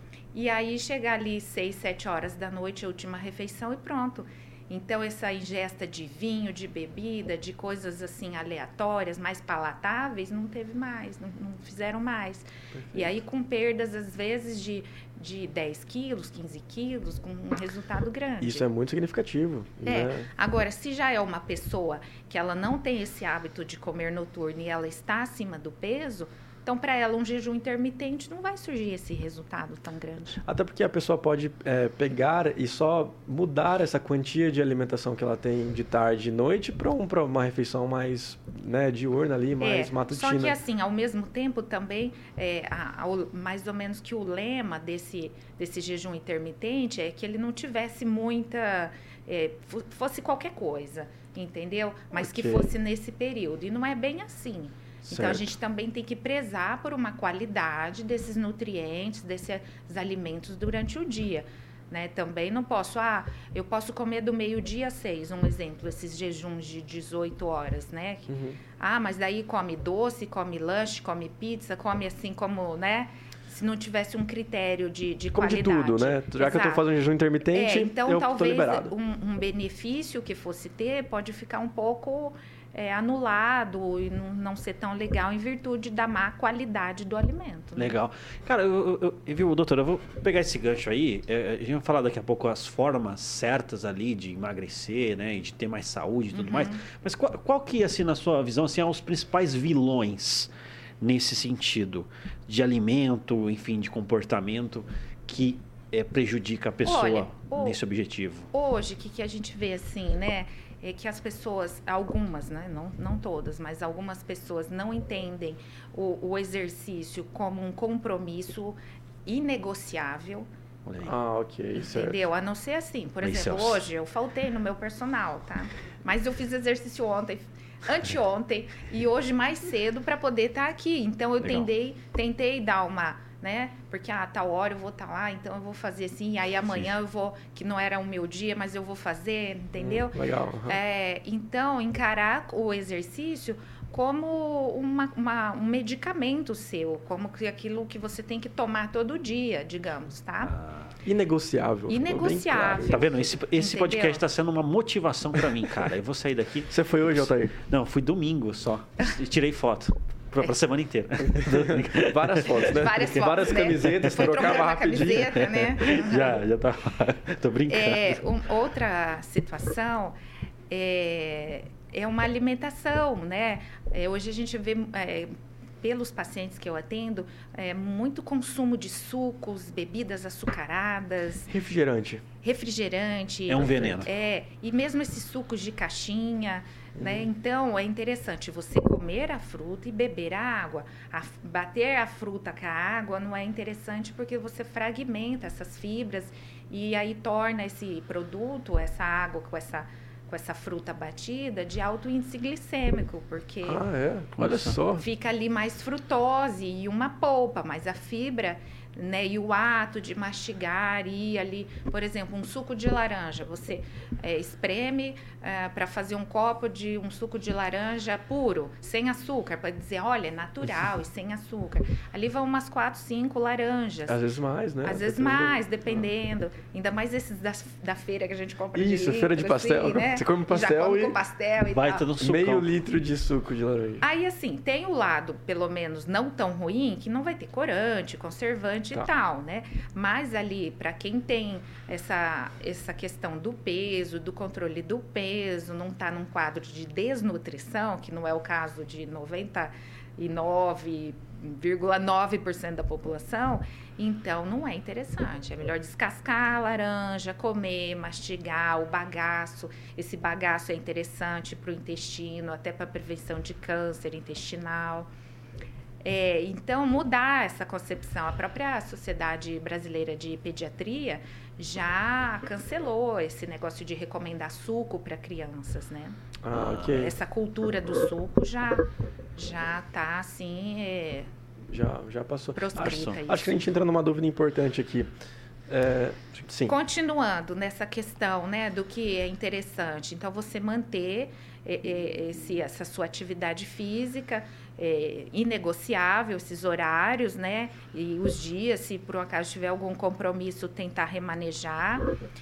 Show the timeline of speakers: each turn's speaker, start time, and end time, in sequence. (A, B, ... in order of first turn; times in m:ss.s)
0:00.3-0:18.6 A
0:12.7-0:13.1 B
0:18.4-0:20.3 B
0:19.8-0:30.4 A
0:30.4-0:40.6 B
0:39.6-1:16.8 A
0:52.2-0:52.7 B
0:55.0-0:55.5 B
1:08.3-1:08.6 B
1:15.3-1:18.9 B
1:17.5-1:28.0 A
1:27.8-1:40.5 C
1:36.3-1:36.8 A
1:41.0-1:48.5 C
1:46.8-1:47.8 A
1:48.5-2:00.5 A
2:00.8-2:01.2 C
2:01.0-2:02.2 B
2:01.8-2:30.5 A
2:03.2-2:03.8 C
2:19.8-2:20.8 B
2:30.5-2:30.9 C
2:31.0-2:33.0 B
2:31.9-2:34.2 A
2:32.9-2:42.9 C
2:36.7-2:37.5 B
2:41.2-2:45.7 B
2:42.6-2:46.4 A
2:43.8-2:44.5 C
2:45.4-2:48.2 C
2:47.7-2:50.2 A
2:50.7-3:01.5 A
3:01.5-3:02.2 B
3:02.4-3:23.8 A
3:03.5-3:04.1 C
3:03.6-3:04.0 B
3:07.0-3:07.3 B
3:23.6-3:25.0 B
3:24.4-3:24.8 C
3:25.0-3:44.2 A
3:44.1-3:46.0 B
3:44.8-3:52.1 A
3:48.7-3:51.2 B
3:51.7-3:52.7 C
3:52.2-3:54.0 B
3:54.0-4:25.1 A
4:26.0-4:36.2 A
4:36.4-4:37.2 B
4:36.5-4:37.0 C
4:36.7-4:38.8 A
4:39.4-4:41.3 A
4:41.7-4:45.1 B
4:42.5-4:43.5 A
4:45.7-4:46.7 B
4:46.6-5:02.0 A